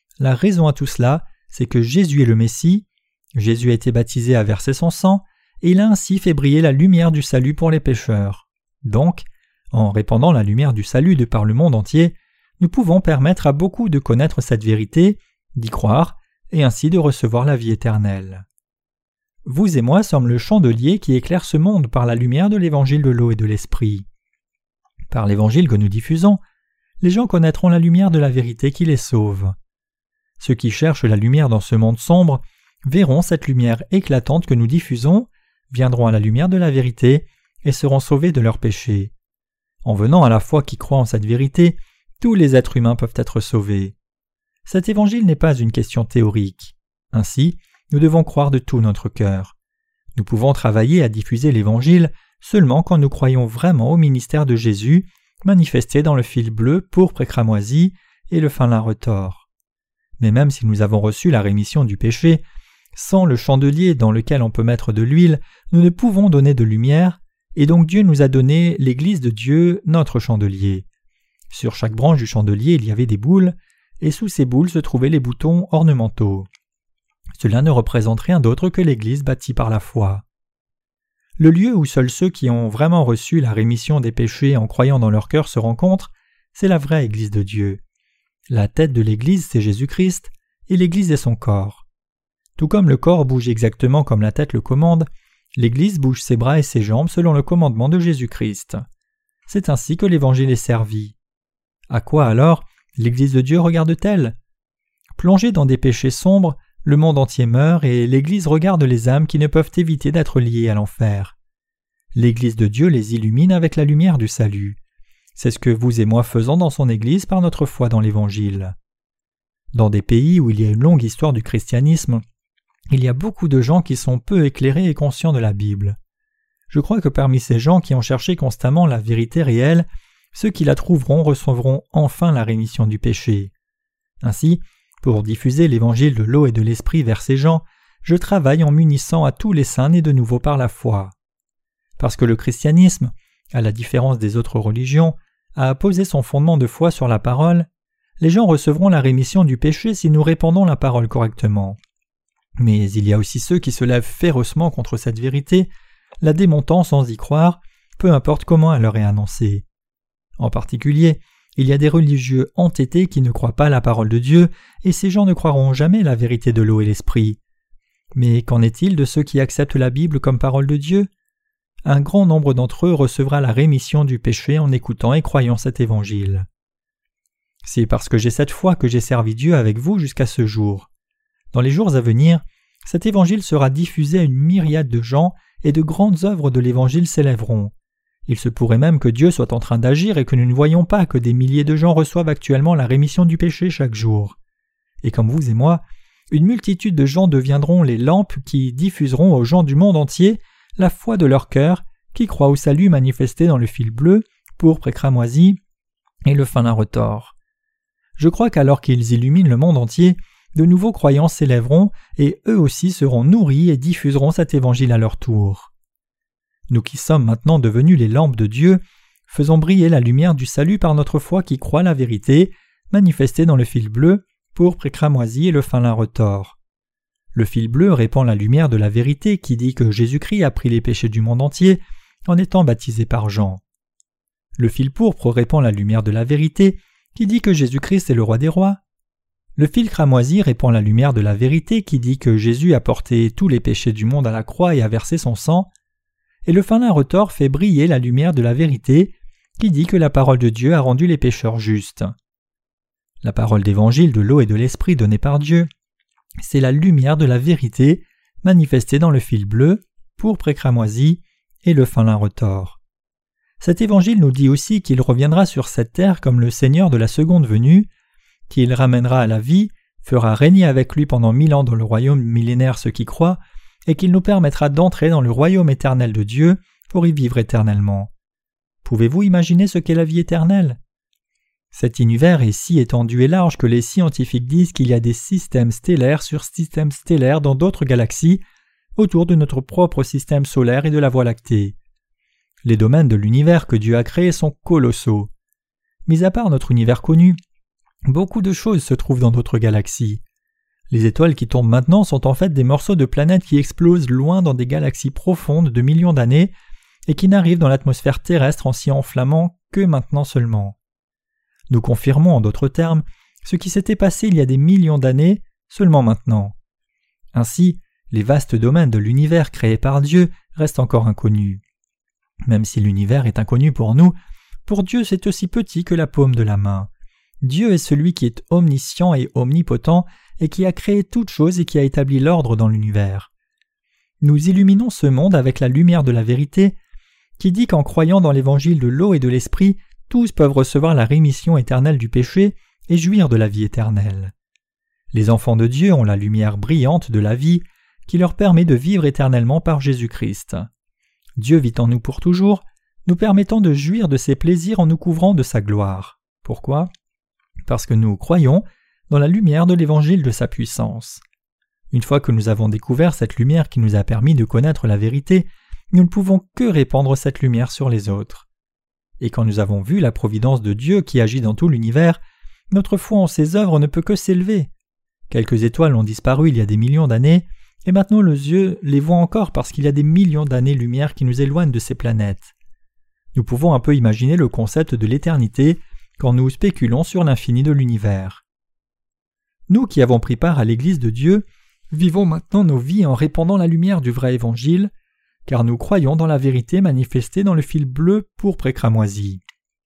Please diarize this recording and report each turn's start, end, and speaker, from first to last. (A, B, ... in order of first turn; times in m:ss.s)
0:00.2-0:18.4 A
0:19.4-0:24.1 A
0:25.1-0:26.4 A
0:27.0-0:29.5 A
0:30.4-0:39.1 A
0:39.8-0:43.9 A
0:44.6-0:49.5 A
0:50.1-0:59.5 A
1:00.2-1:02.4 A
1:02.9-1:10.8 A
1:11.5-1:16.5 A
1:17.4-1:20.2 A
1:21.4-1:27.8 A
1:28.5-1:31.8 A
1:32.6-1:38.8 A
1:39.5-1:41.2 A
1:41.9-1:44.4 A
1:45.2-1:51.4 A
1:52.1-1:54.8 A
1:55.4-1:58.7 A
1:59.7-2:02.2 A
2:02.9-2:06.0 A
2:06.7-2:13.5 A
2:14.2-2:21.1 A
2:22.0-2:27.7 A
2:28.2-2:31.8 A
2:32.6-2:35.7 A
2:36.2-2:39.6 A
2:40.4-2:47.4 A
2:48.1-2:51.1 A
2:51.8-2:56.4 A
2:57.6-3:00.9 A
3:01.5-3:07.7 A
3:08.3-3:14.4 A
3:15.0-3:25.6 A
3:26.3-3:27.3 A
3:28.2-3:35.7 A
3:36.7-3:46.6 A
3:47.3-3:53.6 A
3:54.6-3:58.8 A
3:59.6-4:05.7 A
4:06.4-4:12.1 A
4:13.2-4:15.7 A
4:16.4-4:22.8 A
4:23.6-4:27.9 A
4:28.5-4:38.1 A
4:38.8-4:40.8 A
4:41.7-4:48.4 A
4:49.0-4:51.8 A
4:52.6-4:55.3 A
4:56.1-4:57.4 A
4:58.1-5:00.2 A
5:00.9-5:06.5 A
5:07.1-5:10.8 A
5:11.7-5:16.5 A
5:17.3-5:21.6 A
5:22.5-5:24.1 A
5:24.6-5:26.9 A
5:27.4-5:33.3 A
5:34.2-5:36.8 A
5:37.4-5:44.3 A
5:45.1-5:50.7 A
5:51.4-5:56.9 A
5:57.7-6:01.2 A
6:01.9-6:08.5 A
6:09.2-6:14.7 A
6:15.3-6:22.5 A
6:23.3-6:28.4 A
6:29.7-6:34.9 A
6:35.4-6:39.4 A